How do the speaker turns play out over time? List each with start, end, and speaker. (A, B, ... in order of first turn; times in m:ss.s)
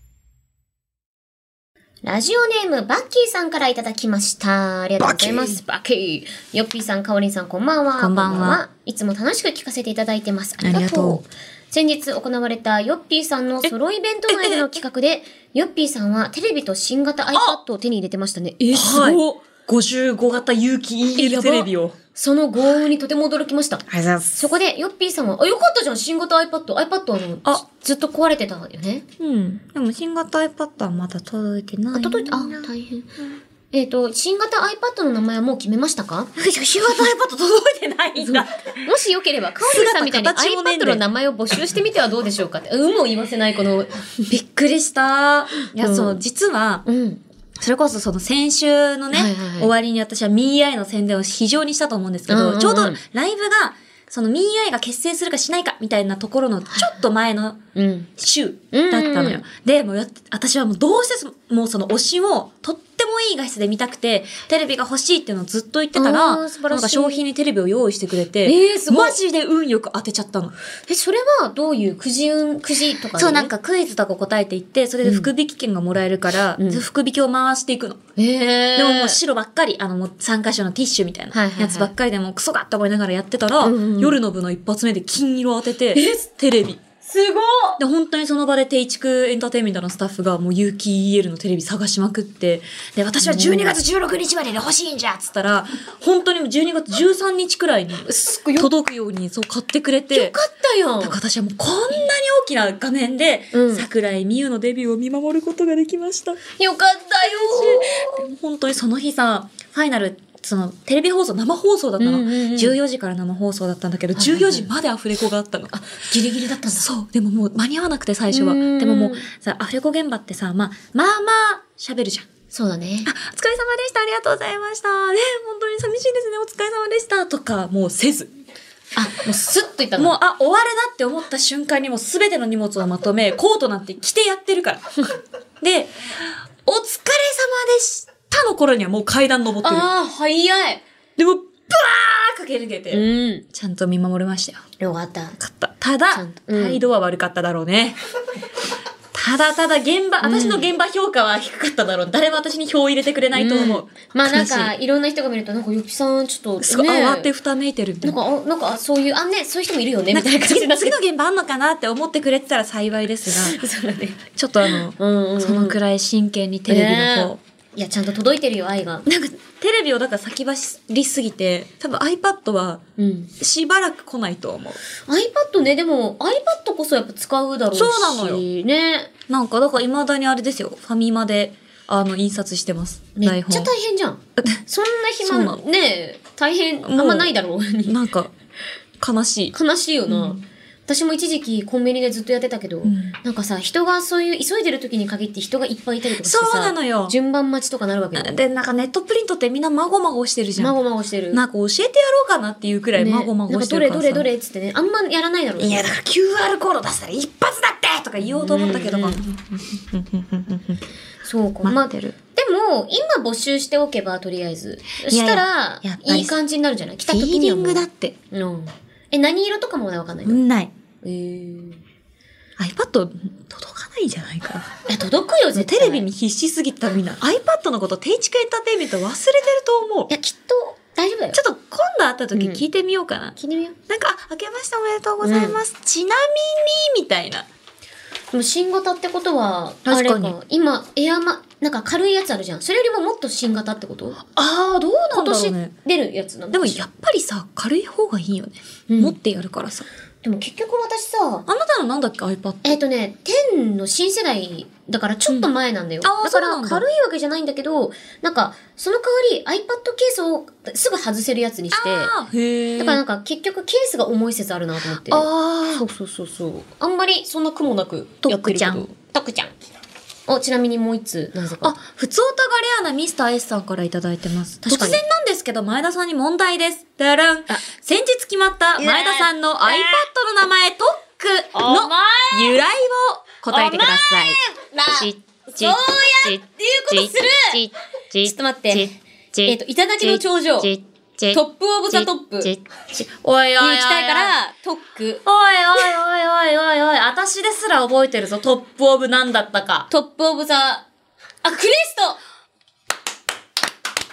0:02.0-0:19.4 A
0:05.0-0:05.6 B
0:08.0-0:08.6 B
0:10.6-0:11.2 B
0:14.3-0:14.8 B
0:18.7-0:22.0 B
0:21.2-0:29.0 A
0:23.9-0:24.4 B
0:29.2-0:32.7 B
0:32.0-0:33.1 A
0:33.7-0:36.3 A
0:36.4-0:38.9 B
0:38.2-0:44.1 A
0:39.6-0:41.0 B
0:44.3-0:46.8 B
0:45.7-0:46.2 A
0:46.8-0:47.2 A
0:47.6-0:57.6 B
0:49.1-0:49.7 A
0:52.3-0:53.0 A
0:56.7-0:57.0 A
0:57.8-0:58.1 A
0:58.2-1:10.6 B
0:58.7-0:59.4 A
1:06.0-1:07.2 A
1:08.4-1:09.2 A
1:10.9-1:13.5 A
1:13.2-1:18.0 B
1:15.0-1:15.3 A
1:16.6-1:16.8 A
1:18.2-1:19.2 A
1:18.8-1:26.8 B
1:21.3-1:21.9 A
1:23.6-1:24.2 A
1:25.9-1:26.3 A
1:27.0-1:27.8 A
1:27.8-1:40.4 B
1:33.2-1:33.8 A
1:38.0-1:38.7 A
1:40.1-1:41.2 A
1:41.0-1:46.4 B
1:43.5-1:43.9 A
1:46.6-1:48.3 A
1:47.2-1:55.7 B
1:52.0-1:52.8 A
1:54.2-1:54.7 A
1:55.7-1:56.9 A
1:56.7-2:02.3 B
1:58.3-1:59.3 A
2:02.5-2:03.1 A
2:03.0-2:08.3 B
2:09.0-2:10.2 A
2:10.0-2:14.9 B
2:15.6-2:19.9 B
2:19.6-2:20.8 A
2:21.2-2:24.6 B
2:22.9-2:23.5 A
2:24.8-2:25.4 A
2:25.4-2:28.0 B
2:26.1-2:26.8 A
2:29.1-2:34.7 B
2:30.2-2:30.7 A
2:33.3-2:37.3 A
2:36.6-2:38.2 B
2:38.0-2:41.0 A
2:40.1-2:43.6 B
2:43.3-2:45.8 A
2:44.3-2:47.4 B
2:46.7-2:49.1 A
2:49.1-2:52.8 B
2:53.0-2:53.3 A
2:53.4-2:54.8 B
2:55.0-2:59.1 A
2:57.7-2:58.4 B
2:59.3-3:03.7 B
3:03.2-3:08.0 A
3:05.2-3:05.6 B
3:06.8-3:07.3 B
3:07.8-3:08.3 B
3:09.0-3:09.6 B
3:09.5-3:18.4 A
3:10.1-3:10.4 B
3:12.8-3:13.2 B
3:16.2-3:17.2 B
3:18.2-3:20.8 B
3:20.6-3:21.4 A
3:21.3-3:24.3 B
3:23.0-3:25.9 A
3:25.6-3:30.8 B
3:28.2-3:29.2 A
3:31.2-3:40.4 A
3:31.6-3:32.2 B
3:35.0-3:36.3 B
3:37.1-3:38.2 B
3:40.2-3:40.7 B
3:41.0-3:41.8 A
3:42.6-3:44.7 B
3:44.9-3:46.0 A
3:45.5-3:50.1 B
3:50.1-3:51.4 A
3:51.3-3:53.4 B
3:52.3-3:52.6 A
3:53.4-3:53.8 A
3:53.9-3:57.5 B
3:55.2-3:55.6 A
3:58.3-4:04.2 A
3:59.8-4:00.4 B
4:04.3-4:05.7 B
4:05.1-4:06.8 A
4:06.5-4:09.9 B
4:08.9-4:09.2 A
4:10.2-4:11.5 A
4:11.5-4:12.8 B
4:12.6-4:22.1 A
4:16.0-4:16.8 B
4:21.7-4:23.0 B
4:22.8-4:29.6 A
4:25.1-4:25.8 B
4:28.2-4:28.9 B
4:30.3-4:31.8 A
4:31.6-4:44.4 B
4:34.6-4:35.0 A
4:38.8-4:40.1 A
4:41.5-4:42.6 A
4:43.5-4:47.6 A
4:44.9-4:54.3 B
4:48.2-4:48.9 A
4:49.5-4:50.7 A
4:51.3-4:52.5 A
4:53.6-4:55.2 A
4:55.2-4:59.9 B
4:59.9-5:00.9 A
5:01.4-5:02.2 A